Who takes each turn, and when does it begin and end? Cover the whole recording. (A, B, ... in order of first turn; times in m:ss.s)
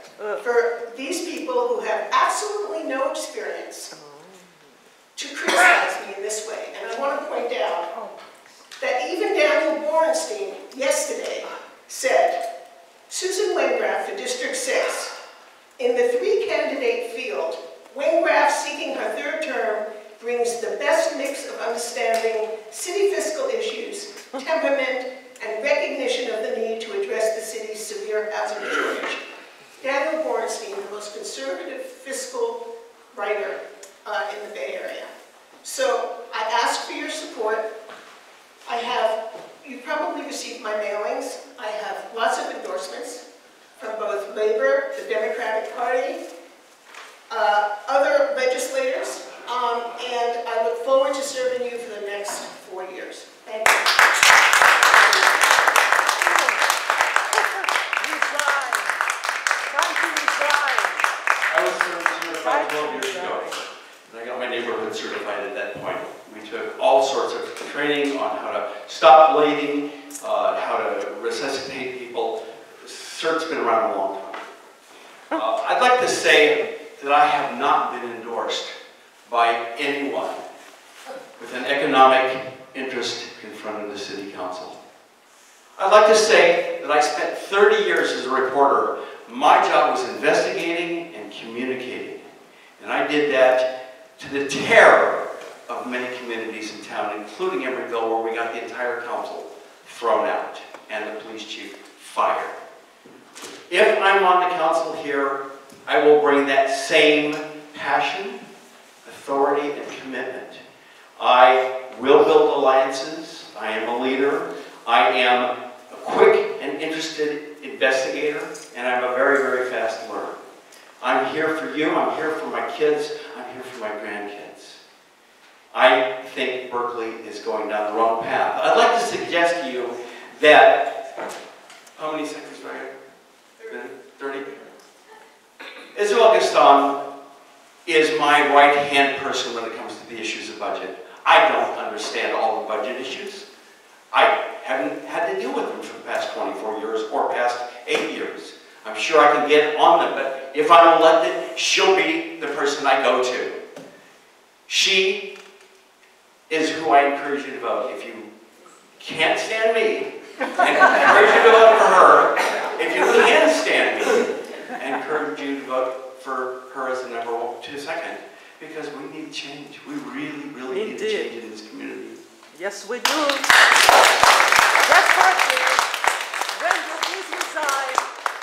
0:00.4-0:03.9 A
0:04.0-0:04.4 B
0:05.2-0:07.9 A
0:08.8-0:12.4 A
0:13.1-0:15.1 A
0:15.8-0:29.2 A
0:29.8-0:35.1 A
0:35.6-0:37.7 A
0:38.7-0:43.2 A
0:43.8-0:46.2 A
0:47.3-0:53.9 A
0:56.2-0:56.6 B
0:58.0-0:59.0 B
0:59.7-1:01.0 B
1:01.5-1:14.5 C
1:02.4-1:03.6 B
1:15.3-1:18.8 C
1:19.3-1:20.4 C
1:21.4-1:24.8 C
1:25.8-1:42.6 C
1:43.7-1:48.4 C
1:49.0-1:50.6 C
1:51.2-2:00.4 C
2:01.0-2:04.8 C
2:05.7-2:10.9 C
2:12.0-2:12.9 C
2:13.6-2:14.5 C
2:15.9-2:17.0 C
2:17.9-2:23.5 C
2:24.1-2:33.6 C
2:34.7-2:35.3 C
2:36.5-2:38.3 C
2:39.0-2:52.2 C
2:50.7-2:51.3 B
2:52.6-2:53.5 B
2:54.8-2:55.9 B
2:56.6-2:58.1 B